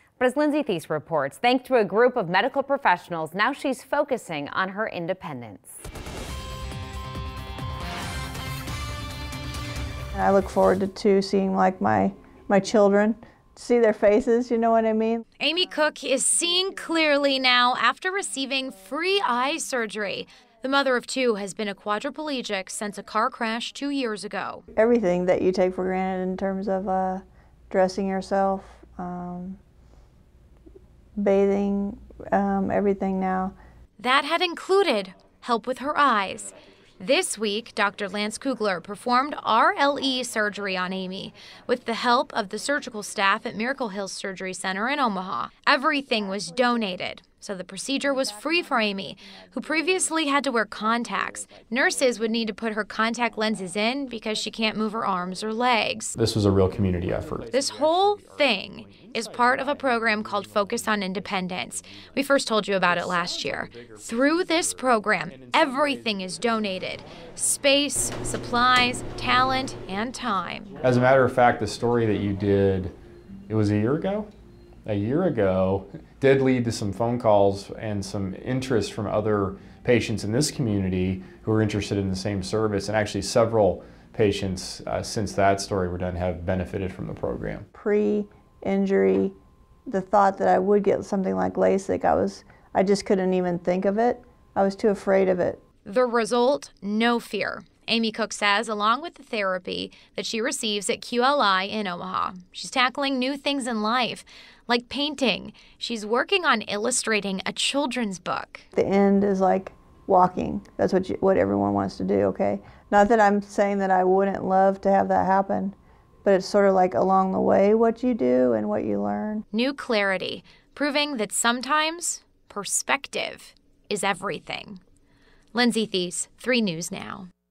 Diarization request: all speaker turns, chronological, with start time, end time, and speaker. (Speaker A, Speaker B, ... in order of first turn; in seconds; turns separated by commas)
Speaker A: 0.2-5.8, Speaker B: 10.1-15.2, Speaker C: 15.4-24.6, Speaker B: 24.7-29.6, Speaker B: 31.2-33.5, Speaker C: 34.0-56.1, Speaker D: 56.1-61.1, Speaker C: 57.5-70.8, Speaker D: 62.8-66.8, Speaker D: 70.8-72.9, Speaker D: 73.5-74.3, Speaker D: 74.8-87.7, Speaker B: 87.7-89.3, Speaker B: 89.9-95.6, Speaker C: 95.8-108.6, Speaker B: 108.7-119.4, Speaker C: 119.5-124.8, Speaker C: 125.5-127.3